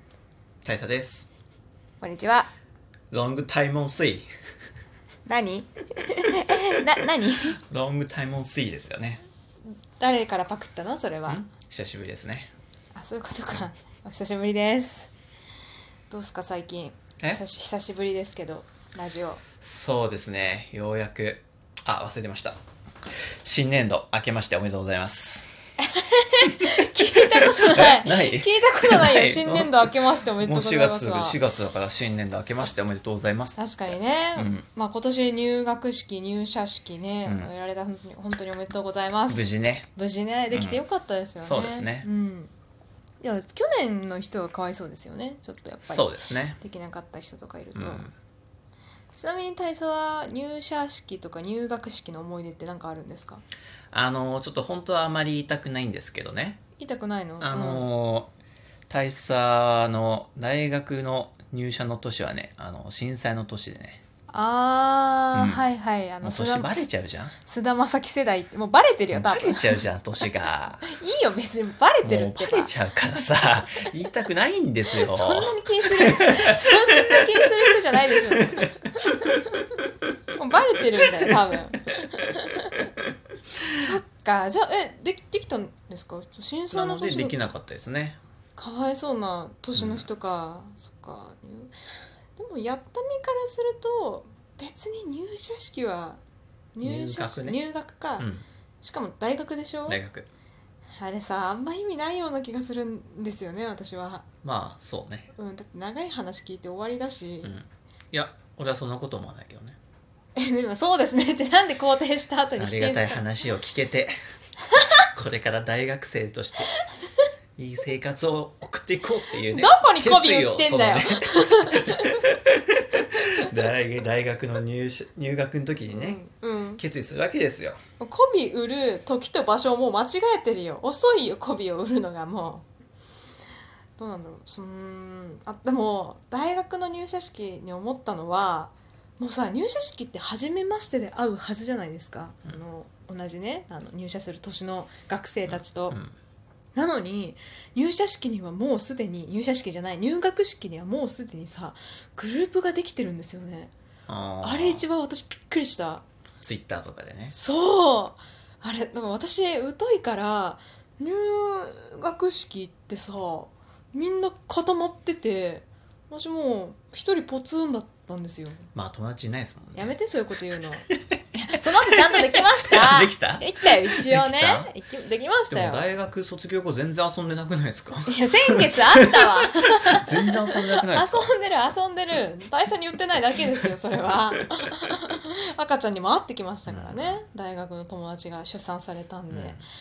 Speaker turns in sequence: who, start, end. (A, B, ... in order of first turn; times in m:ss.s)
0:00.6-0:01.3 A
0:02.0-0:02.5 B
0:03.1-0:04.3 A
0:05.3-0:07.6 B
0:07.6-0:09.2 A
0:10.0-0:11.5 B
0:11.3-0:12.5 A
0:12.9-0:15.1 B
0:16.1-0:19.4 B
0:19.6-0:22.6 A
0:23.4-0:25.5 A
0:25.8-0:31.4 B
0:26.4-0:34.6 A
0:33.6-0:42.5 B
0:39.3-0:39.9 A
0:40.5-0:40.8 A
0:41.4-0:42.1 A
0:43.2-0:48.1 B
0:45.9-0:46.6 A
0:47.8-0:48.1 A
0:49.1-0:53.4 B
0:53.9-0:56.6 A
0:56.8-0:57.9 B
0:57.4-0:58.3 A
0:58.9-1:04.0 A
1:04.3-1:06.9 B
1:05.3-1:05.7 A
1:06.2-1:07.3 A
1:07.4-1:10.3 B
1:09.1-1:10.9 A
1:10.9-1:12.7 B
1:12.0-1:17.7 A
1:15.0-1:19.6 B
1:18.3-1:18.7 A
1:20.3-1:22.9 B
1:23.7-1:27.4 B
1:26.7-1:28.2 A
1:28.6-1:31.7 B
1:29.8-1:30.1 A
1:32.3-1:36.2 B
1:36.7-1:38.3 B
1:36.8-1:37.6 A
1:38.2-1:38.4 A
1:38.8-1:40.0 B
1:39.9-1:40.3 A
1:40.9-1:44.2 B
1:44.4-1:45.3 A
1:45.3-1:47.5 B
1:47.4-1:49.8 A
1:50.4-1:53.2 B
1:52.6-1:54.1 A
1:55.1-1:56.7 A
1:56.7-1:57.2 B
1:57.6-2:06.2 A
1:59.5-2:02.2 B
2:05.9-2:06.8 B
2:06.8-2:07.8 A
2:08.0-2:12.7 B
2:14.0-2:26.0 B
2:25.5-2:26.1 A
2:26.8-2:33.7 B
2:34.1-2:34.8 A
2:34.4-2:36.0 B
2:36.4-2:37.3 A
2:37.3-2:48.7 B
2:48.7-2:50.0 A
2:49.8-2:55.9 B
2:52.0-2:54.7 A
2:55.5-3:01.3 A
2:58.1-3:09.6 B
3:06.7-3:07.2 A
3:09.3-3:09.6 A